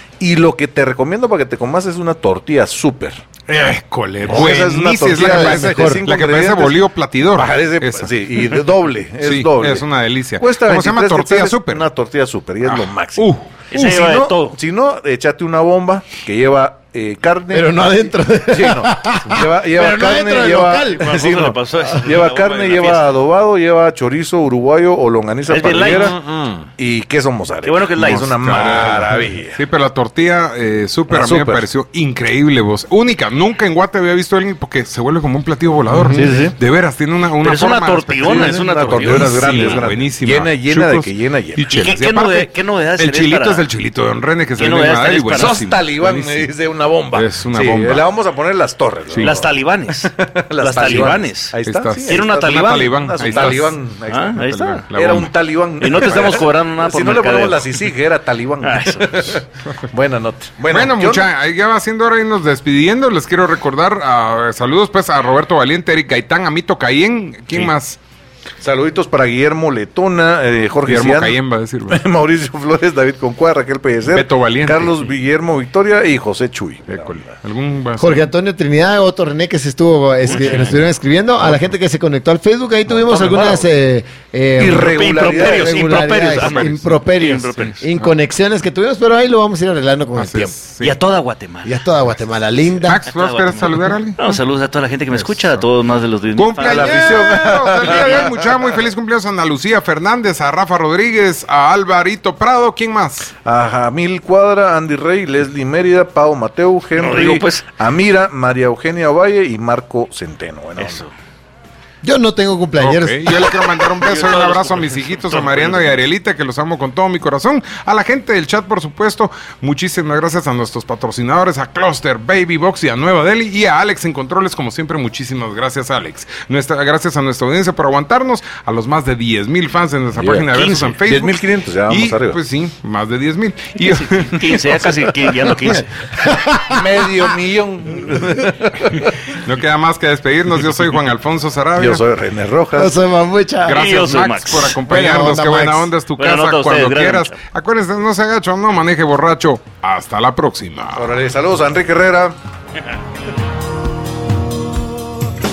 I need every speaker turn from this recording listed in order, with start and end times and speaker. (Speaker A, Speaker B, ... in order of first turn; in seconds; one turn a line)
Speaker A: 0.2-3.2
Speaker B: 3.5-8.6
Speaker A: 4.2-9.8
Speaker C: 5.1-6.0
Speaker B: 9.2-11.8
Speaker A: 10.4-17.8
Speaker B: 12.7-13.5
Speaker D: 13.7-14.6
Speaker C: 17.5-21.1
Speaker A: 18.5-26.2
Speaker D: 20.9-23.2
Speaker D: 25.5-26.2
Speaker B: 25.7-26.7
Speaker A: 26.8-29.6
Speaker D: 27.6-28.8
Speaker B: 28.4-46.5
Speaker A: 31.1-31.6
Speaker C: 35.9-36.3
Speaker A: 36.2-36.5
Speaker D: 37.4-39.9
Speaker A: 38.2-41.7
Speaker D: 41.7-43.7
Speaker D: 44.6-45.6
Speaker A: 45.3-61.3
Speaker B: 47.1-48.0
Speaker D: 49.2-51.5
Speaker B: 51.6-53.8
Speaker D: 52.1-54.9
Speaker B: 54.3-55.3
Speaker D: 55.8-57.8
Speaker D: 58.6-59.4
Speaker B: 60.7-68.0
Speaker A: 68.6-77.2
Speaker B: 70.8-72.0
Speaker B: 74.1-74.9
Speaker B: 76.9-78.3
Speaker C: 78.0-90.5
Speaker D: 80.3-80.7
Speaker B: 80.3-80.7
Speaker A: 82.9-83.7
Speaker A: 84.6-86.0
Speaker D: 84.6-87.9
Speaker B: 86.3-87.0
Speaker B: 90.2-90.9
Speaker D: 90.8-91.8
Speaker C: 91.6-93.0
Speaker B: 92.8-94.2
Speaker D: 93.0-97.2
Speaker B: 96.3-103.3
Speaker A: 96.6-98.7
Speaker A: 103.4-111.0
Speaker D: 107.0-107.6
Speaker D: 110.8-111.1
Speaker C: 112.0-113.3
Speaker B: 112.8-134.7
Speaker D: 114.0-116.0
Speaker A: 130.1-130.5
Speaker D: 130.5-130.9
Speaker A: 131.0-132.4
Speaker D: 133.8-135.9
Speaker C: 136.2-136.8
Speaker A: 136.7-139.1
Speaker B: 139.4-142.0
Speaker A: 141.8-143.0
Speaker C: 142.8-143.8
Speaker B: 143.7-151.2
Speaker D: 143.7-144.8
Speaker C: 144.8-145.9
Speaker D: 146.2-147.4
Speaker A: 150.9-152.4